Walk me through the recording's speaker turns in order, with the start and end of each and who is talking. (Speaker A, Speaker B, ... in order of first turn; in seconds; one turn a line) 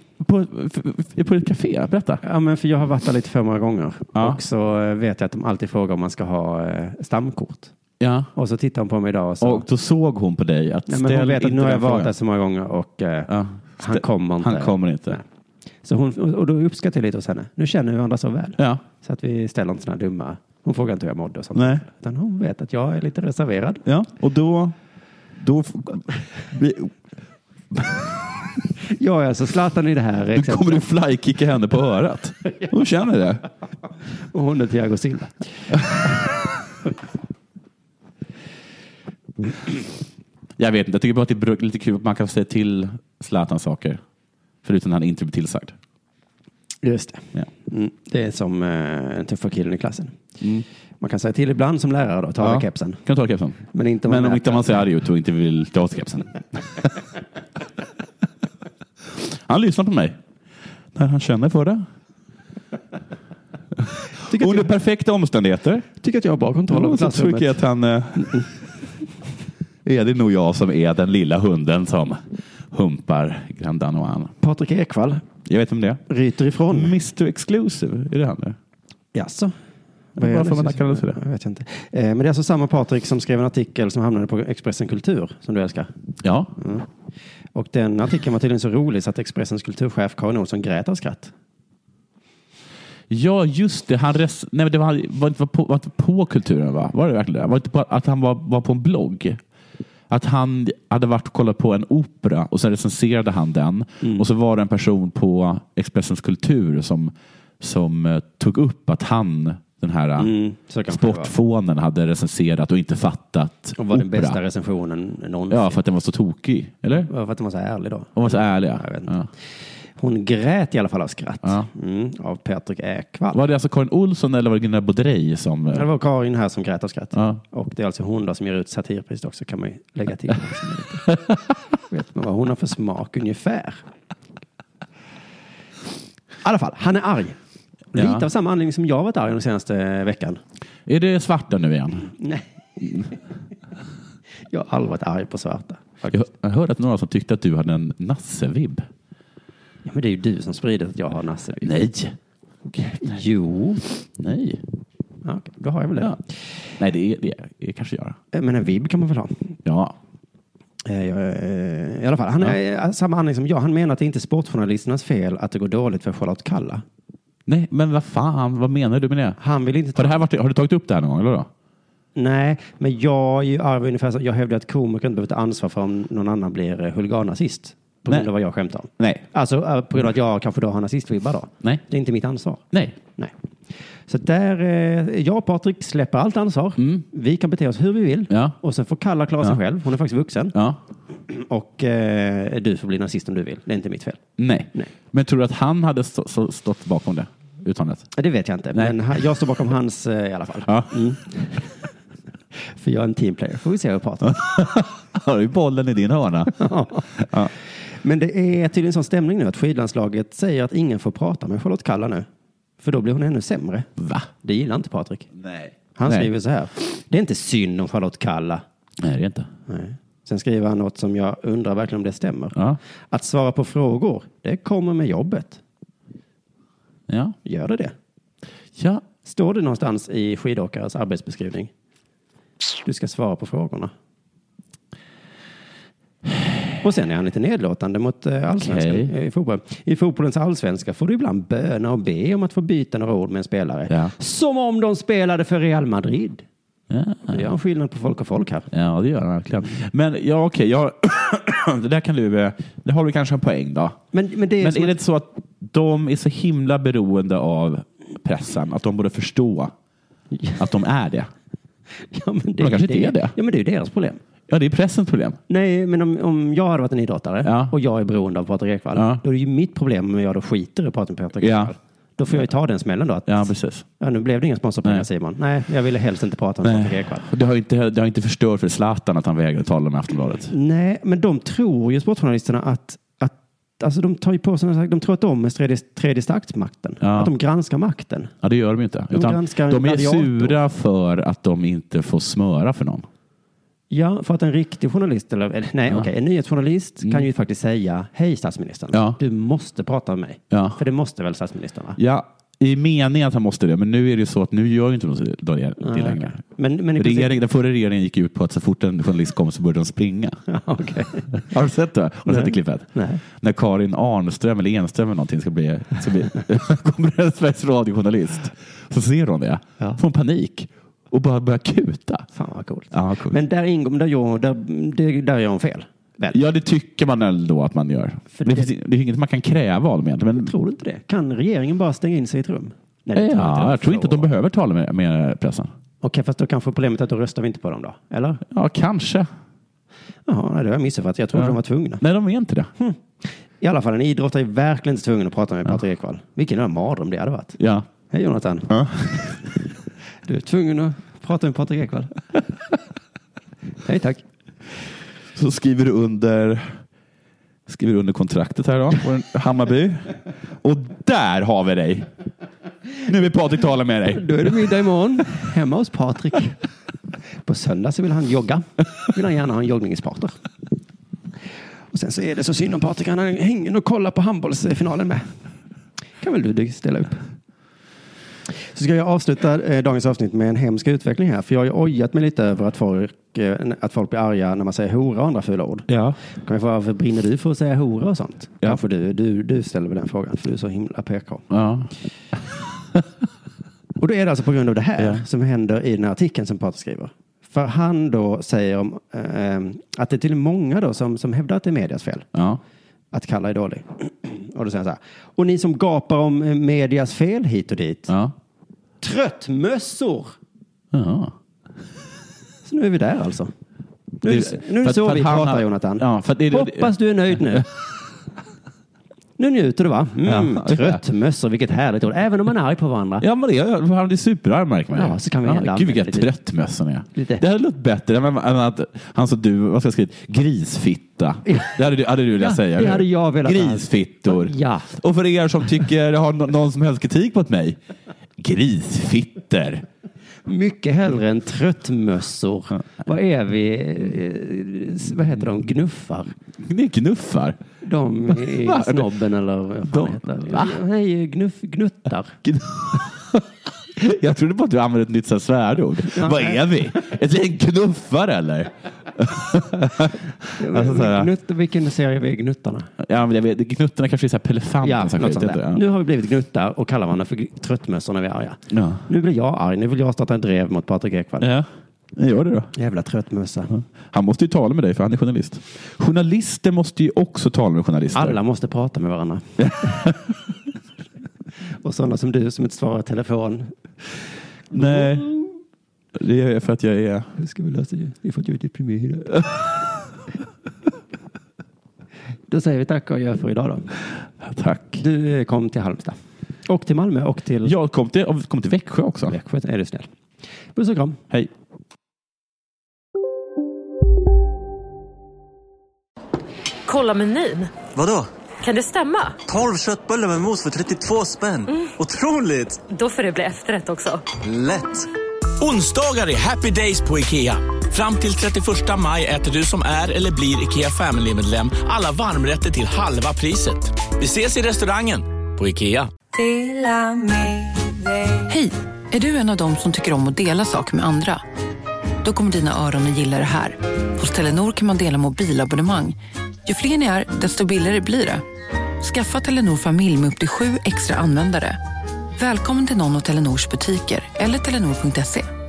Speaker A: 0.2-2.2
Speaker B: 2.2-7.7
Speaker A: 8.0-8.3
Speaker B: 8.3-9.7
Speaker A: 9.4-12.1
Speaker B: 10.9-15.2
Speaker A: 13.3-15.2
Speaker B: 15.8-23.8
Speaker A: 21.5-21.8
Speaker A: 23.8-24.7
Speaker A: 25.4-26.9
Speaker A: 27.7-28.1
Speaker B: 28.9-30.9
Speaker A: 30.3-33.4
Speaker B: 34.3-35.5
Speaker A: 40.6-44.0
Speaker A: 44.6-45.7
Speaker B: 46.8-50.2
Speaker B: 51.0-53.0
Speaker A: 52.4-56.9
Speaker B: 53.7-54.8
Speaker A: 59.1-60.2
Speaker A: 60.9-61.8
Speaker A: 63.8-65.9
Speaker B: 64.2-64.7
Speaker B: 66.0-67.6
Speaker A: 66.7-68.5
Speaker B: 68.2-68.4
Speaker A: 69.8-74.3
Speaker B: 74.4-75.2
Speaker A: 75.4-76.0
Speaker B: 76.1-76.9
Speaker A: 76.7-78.6
Speaker B: 79.1-79.5
Speaker A: 80.2-81.2
Speaker B: 80.2-85.9
Speaker A: 86.2-86.5
Speaker B: 86.6-86.8
Speaker B: 87.5-91.3
Speaker A: 93.1-99.4
Speaker A: 100.1-110.3
Speaker B: 110.2-111.3
Speaker A: 110.9-114.4
Speaker B: 113.8-115.8
Speaker A: 115.5-117.1
Speaker B: 117.0-119.1
Speaker A: 118.2-119.3
Speaker B: 120.0-123.4
Speaker A: 123.3-125.9
Speaker B: 125.7-131.1
Speaker A: 127.1-127.4
Speaker B: 131.9-133.8
Speaker B: 136.4-137.4
Speaker B: 137.9-140.4
Speaker A: 137.9-138.2
Speaker A: 140.9-142.1
Speaker B: 142.1-143.1
Speaker B: 144.5-146.2
Speaker A: 146.1-148.9
Speaker B: 149.8-151.9
Speaker A: 151.6-152.1
Speaker B: 152.7-153.8
Speaker A: 154.2-154.6
Speaker B: 155.2-156.3
Speaker A: 156.8-158.2
Speaker B: 158.3-159.5
Speaker A: 159.6-159.9
Speaker B: 160.8-166.8
Speaker A: 167.5-169.4
Speaker B: 169.4-170.2
Speaker A: 169.9-171.5
Speaker B: 172.2-183.3
Speaker A: 179.0-179.2
Speaker B: 184.1-190.6
Speaker A: 186.8-187.0
Speaker A: 188.3-188.6
Speaker A: 190.5-190.8
Speaker B: 191.3-194.2
Speaker A: 194.4-198.1
Speaker B: 198.1-201.6
Speaker A: 200.7-200.9
Speaker B: 202.7-204.6
Speaker A: 204.2-206.6
Speaker B: 206.5-207.5
Speaker A: 207.2-207.5
Speaker B: 208.0-212.3
Speaker B: 212.8-213.9
Speaker A: 214.0-214.3
Speaker B: 214.4-215.3
Speaker A: 215.4-216.3
Speaker B: 215.9-218.6
Speaker A: 219.0-219.5
Speaker B: 219.7-222.6
Speaker B: 223.1-225.6
Speaker A: 227.1-227.3
Speaker B: 227.4-227.9
Speaker A: 228.8-229.0
Speaker B: 229.2-231.7
Speaker B: 232.8-233.9
Speaker B: 236.8-246.4
Speaker A: 238.5-239.1
Speaker A: 246.9-247.5
Speaker B: 247.3-248.7
Speaker A: 248.7-254.0
Speaker B: 254.1-254.9
Speaker A: 254.6-259.7
Speaker B: 260.3-260.6
Speaker A: 260.6-261.3
Speaker B: 262.1-264.2
Speaker A: 262.6-263.3
Speaker A: 264.5-265.4
Speaker B: 265.5-277.2
Speaker A: 267.4-267.7
Speaker A: 268.9-269.2
Speaker A: 271.4-271.7
Speaker A: 273.2-273.8
Speaker A: 276.6-280.5
Speaker B: 280.5-288.3
Speaker A: 287.0-287.3
Speaker A: 288.4-293.1
Speaker B: 289.1-290.6
Speaker B: 293.9-302.0
Speaker A: 298.9-299.2
Speaker A: 300.5-300.8
Speaker A: 302.0-306.4
Speaker B: 305.8-307.4
Speaker A: 306.9-310.4
Speaker B: 310.5-311.4
Speaker A: 311.4-322.3
Speaker B: 312.2-313.2
Speaker B: 322.3-326.4
Speaker A: 322.9-323.4
Speaker A: 326.3-330.5
Speaker B: 328.3-328.7
Speaker B: 330.4-334.3
Speaker A: 333.1-335.7
Speaker B: 336.0-338.4
Speaker A: 338.5-339.3
Speaker B: 340.3-342.0
Speaker A: 341.3-342.7
Speaker B: 343.6-347.6
Speaker A: 347.6-347.9
Speaker B: 348.1-349.3
Speaker A: 348.7-349.4
Speaker B: 350.2-352.2
Speaker B: 353.8-354.2
Speaker A: 355.3-356.8
Speaker A: 357.7-362.1
Speaker A: 363.0-364.4
Speaker B: 364.1-366.6
Speaker B: 367.4-370.3
Speaker B: 371.9-375.3
Speaker B: 376.2-377.2
Speaker B: 378.7-391.4
Speaker A: 385.9-386.2
Speaker A: 391.5-391.9
Speaker B: 394.0-402.3
Speaker A: 402.3-402.6
Speaker B: 403.1-408.1
Speaker A: 408.1-408.3
Speaker B: 409.0-410.3
Speaker A: 410.9-411.3
Speaker B: 412.6-413.5
Speaker B: 414.2-417.7
Speaker A: 414.2-417.6
Speaker B: 419.4-423.2
Speaker A: 420.2-421.0
Speaker A: 423.2-437.8
Speaker B: 424.9-426.3
Speaker B: 427.1-427.4
Speaker B: 431.4-431.7
Speaker B: 432.4-434.9
Speaker A: 438.4-439.8
Speaker B: 440.4-446.3
Speaker A: 446.6-447.6
Speaker B: 447.8-452.4
Speaker A: 448.3-449.1
Speaker A: 449.9-450.8
Speaker A: 452.4-461.3
Speaker B: 456.1-456.9
Speaker B: 460.5-462.9
Speaker A: 463.0-465.8
Speaker B: 464.8-471.5
Speaker A: 468.7-469.0
Speaker A: 471.4-472.7
Speaker B: 472.7-473.7
Speaker A: 473.7-478.4
Speaker B: 478.1-480.1
Speaker A: 479.6-480.2
Speaker B: 481.8-483.7
Speaker B: 484.7-485.5
Speaker A: 484.7-485.3
Speaker A: 486.1-487.3
Speaker B: 487.4-489.4
Speaker B: 492.5-493.9
Speaker A: 494.4-495.0
Speaker B: 495.0-497.7
Speaker A: 497.6-499.4
Speaker B: 499.3-500.1
Speaker B: 500.8-501.2
Speaker C: 506.9-507.7
Speaker D: 507.9-508.2
Speaker C: 508.6-509.4
Speaker D: 509.5-512.8
Speaker C: 511.7-511.9
Speaker C: 512.9-514.2
Speaker D: 514.4-515.0
Speaker E: 515.6-526.1
Speaker F: 528.5-531.4
Speaker F: 532.2-536.1
Speaker F: 536.7-538.4
Speaker F: 539.0-541.8
Speaker F: 542.4-545.4